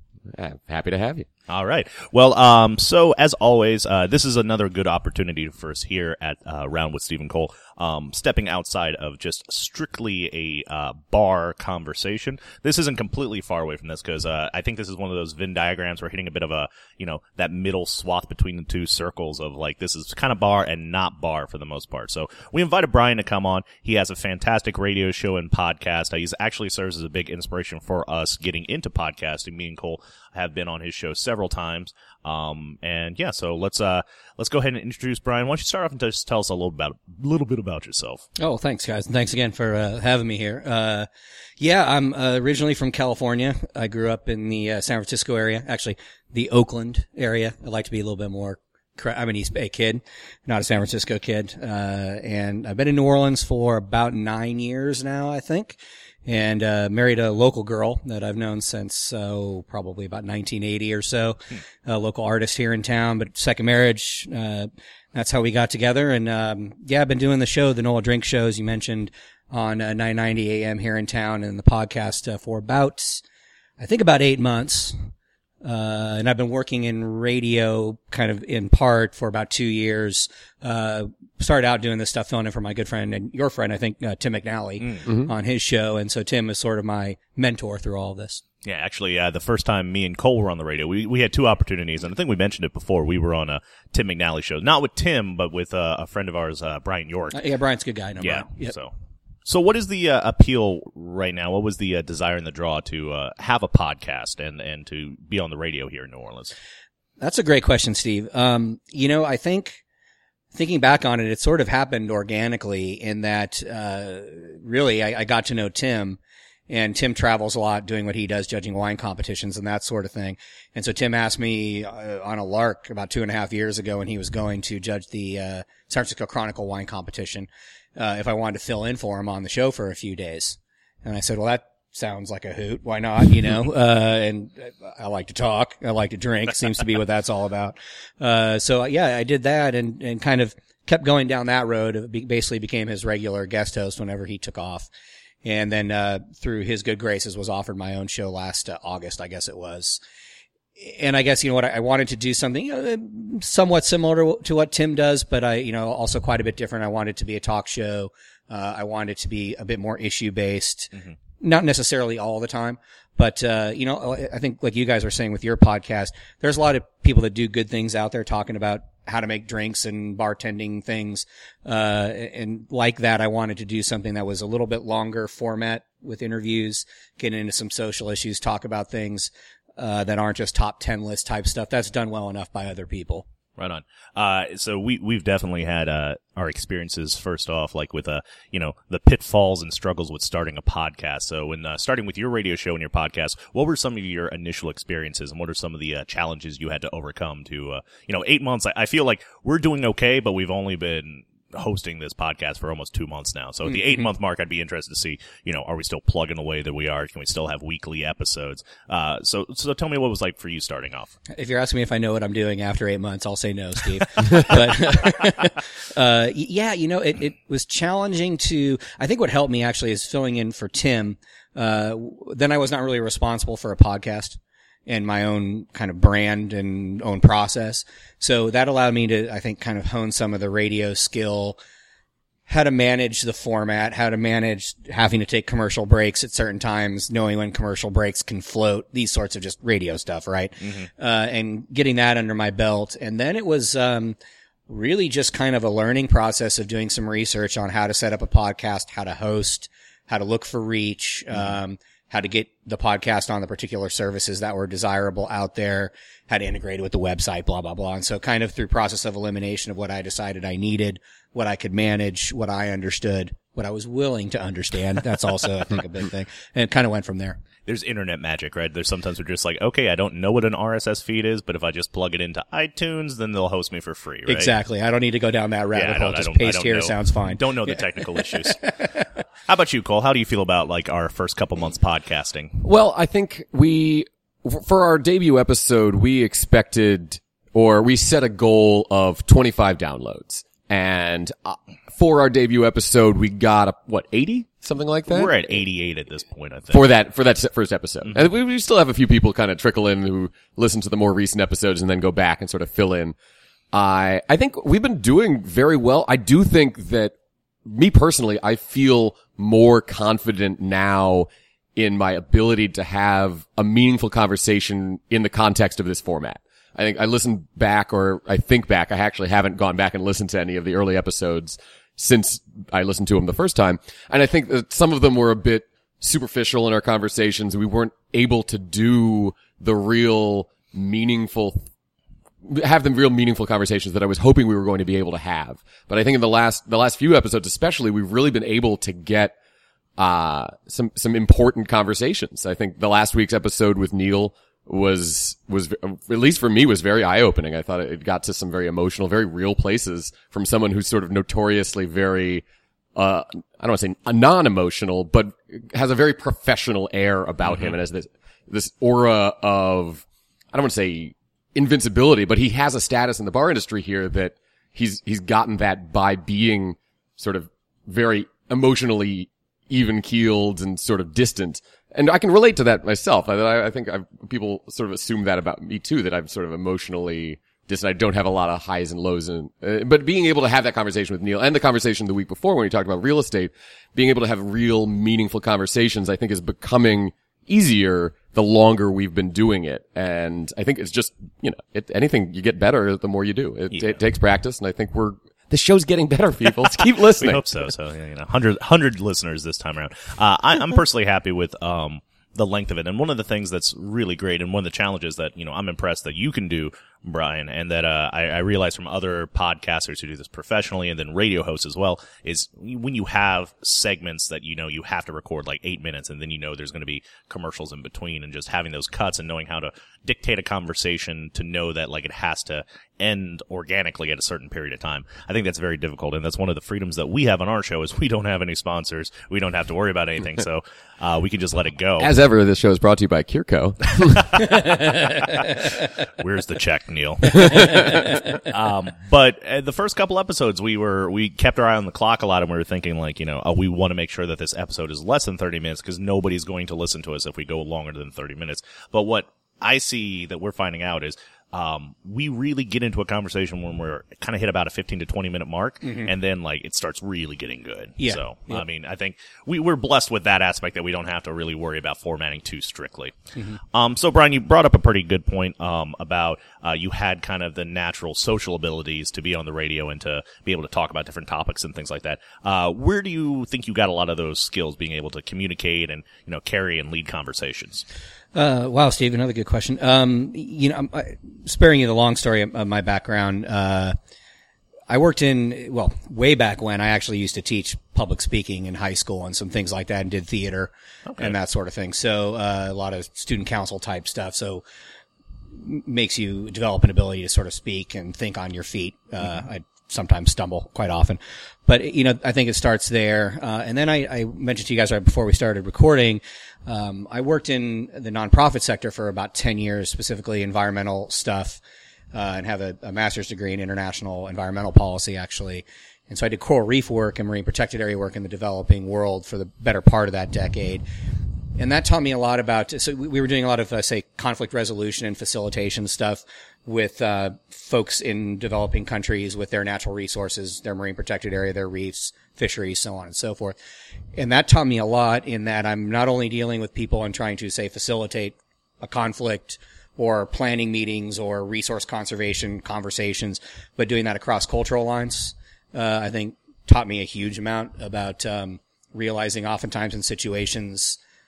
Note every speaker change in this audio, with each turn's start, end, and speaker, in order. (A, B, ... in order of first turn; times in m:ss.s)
0:00.3-0:01.3 A
0:01.5-0:38.2 B
0:38.4-0:41.1 C
0:41.6-1:13.2 C
1:13.8-1:15.1 C
1:15.6-1:28.4 C
1:28.6-1:37.4 B
1:37.3-1:38.7 C
1:38.2-1:38.9 B
1:39.5-1:46.6 B
1:47.2-1:49.8 C
1:50.5-2:24.9 C
2:25.4-2:30.0 C
2:30.8-3:03.2 C
3:03.6-3:31.1 B
3:23.7-3:24.1 C
3:31.3-3:51.6 C
3:52.5-4:04.2 C
4:04.7-4:27.4 C
4:27.7-4:34.5 B
4:34.3-4:38.9 C
4:35.7-4:38.8 B
4:39.5-4:42.6 B
4:42.6-4:55.3 A
4:55.1-4:56.8 B
4:56.7-5:03.2 A
5:03.7-5:07.1 A
5:07.7-5:31.7 A
5:32.4-5:39.3 A
5:40.0-5:52.4 A
5:53.0-6:37.5 A
5:57.4-5:57.7 B
6:36.8-7:12.1 B
7:12.0-7:14.5 A
7:14.3-7:43.2 B
7:35.8-7:36.1 C
7:38.0-7:38.6 C
7:43.7-7:57.8 B
7:58.3-8:04.0 C
8:04.9-8:14.6 C
8:11.1-8:11.3 B
8:15.5-8:31.6 C
8:32.1-8:40.8 C
8:41.6-8:53.6 C
8:54.2-9:11.0 C